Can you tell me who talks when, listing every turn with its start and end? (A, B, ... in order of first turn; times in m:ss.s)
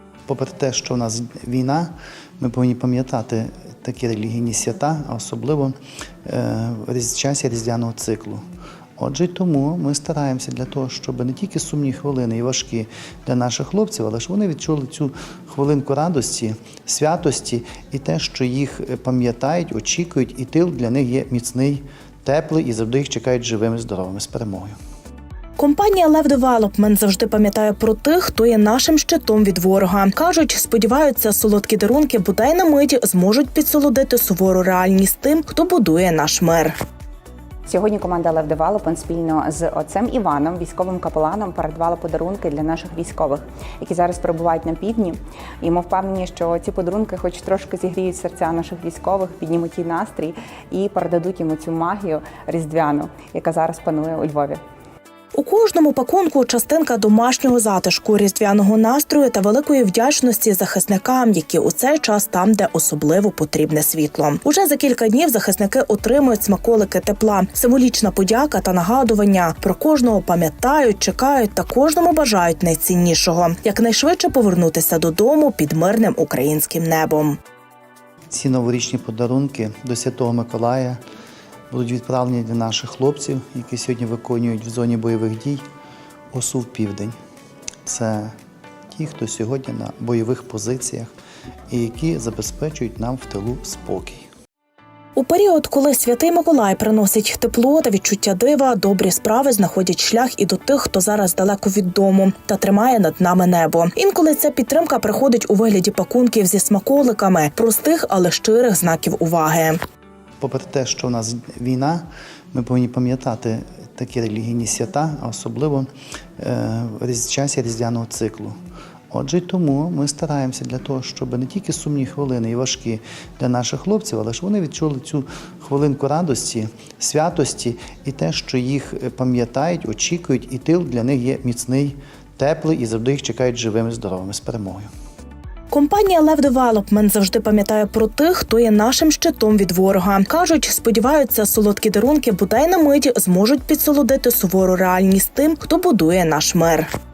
0:00.3-0:08.4 A
0:09.0-0:24.8 A
0:25.6-0:36.8 B
0:37.7-0:54.6 C
0:55.4-1:17.4 B
1:18.3-1:21.0 A
1:21.7-1:25.6 A
1:26.3-1:27.2 A
1:27.8-1:28.3 A
1:28.9-1:31.1 A
1:31.7-1:34.3 A
1:35.2-1:49.8 B
1:50.4-1:58.6 A
1:59.1-2:14.9 A
2:15.7-2:26.9 B